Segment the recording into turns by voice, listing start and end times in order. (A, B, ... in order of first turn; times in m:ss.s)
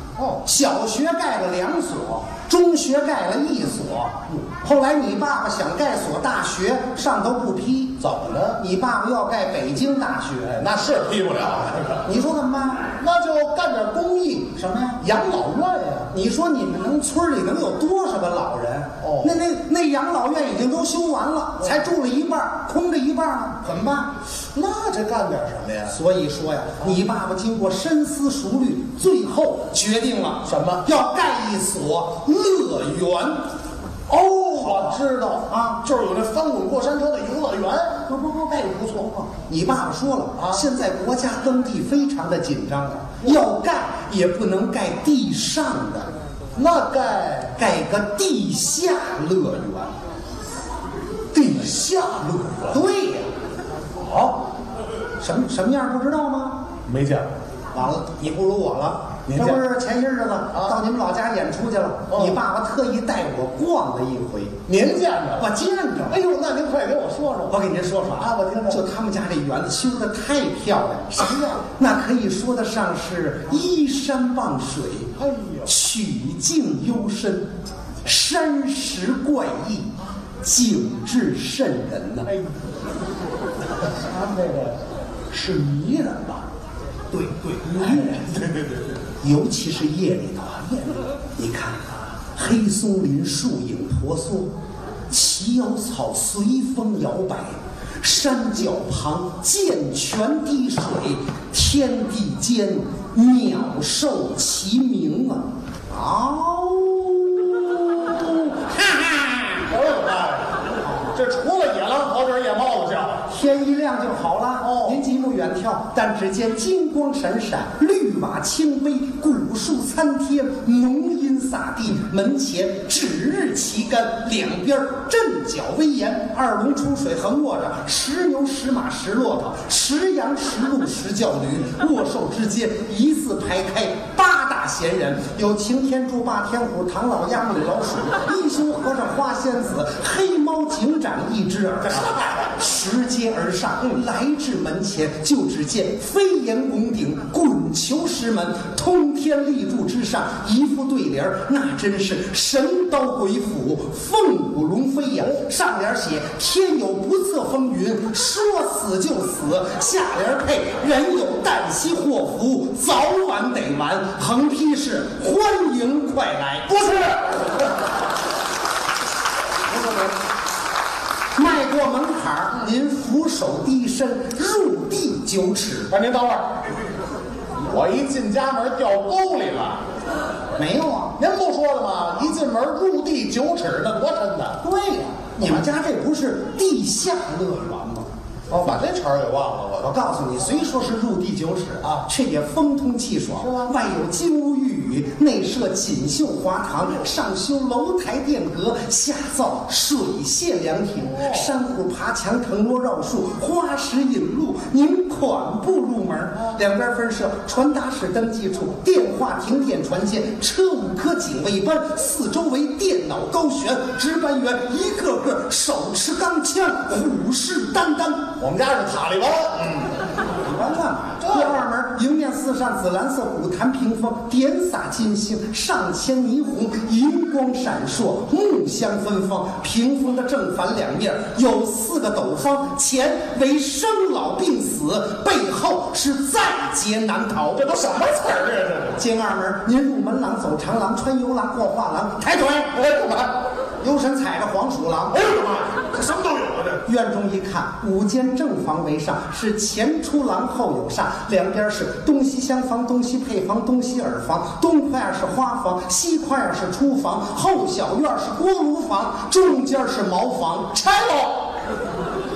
0:00.2-0:00.4 A
0:00.4-0:08.0 B
0:08.0-0:08.6 A
0:08.5-0:10.6 B
0:10.5-0:12.0 A
0:12.0-0:12.9 B
0:12.9-0:16.1 A
0:14.6-0:15.0 B
0:16.1-0:24.1 B
0:19.0-0:19.3 A
0:24.5-0:25.9 A
0:25.9-0:33.5 B
0:30.4-0:30.8 A
0:34.1-0:39.3 A
0:34.5-0:35.8 B
0:39.5-0:46.1 B
0:40.4-0:40.6 A
0:46.5-0:47.6 A
0:47.6-0:49.9 B
0:51.3-0:52.8 A
0:52.7-0:53.3 B
0:54.0-0:54.4 A
0:55.2-0:56.6 B
0:56.8-0:57.3 A
0:57.7-1:04.6 B
0:59.3-0:59.6 A
1:02.1-1:02.4 A
1:04.7-1:05.5 A
1:05.4-1:06.2 B
1:06.1-1:07.5 A
1:07.5-1:15.1 B
1:08.2-1:08.8 A
1:11.2-1:11.6 A
1:15.2-1:15.7 A
1:15.6-1:17.5 B
1:18.0-1:22.3 B
1:24.0-1:24.8 A
1:25.3-1:26.4 A
1:27.1-1:28.3 B
1:27.7-1:28.7 A
1:29.2-1:34.5 B
1:35.1-1:48.7 B
1:49.5-1:53.2 A
1:50.8-1:51.1 B
1:53.2-2:46.8 B
1:54.6-1:55.0 A
2:21.9-2:22.6 A
2:46.7-2:47.3 A
2:51.3-2:55.9 B
2:55.9-2:56.5 A
2:57.6-2:59.8 A
3:00.6-3:01.2 B
3:01.2-3:04.6 A
3:04.6-3:08.1 B
3:08.5-3:09.9 A
3:09.8-3:38.3 B
3:13.4-3:13.7 A
3:21.1-3:21.5 A
3:38.4-3:39.9 A
3:40.4-3:57.8 B
3:41.2-3:41.6 A
3:57.6-3:59.0 A
3:59.0-4:02.7 B
4:02.7-4:03.4 A
4:03.8-4:05.3 B
4:05.1-4:06.8 A
4:06.8-4:21.5 B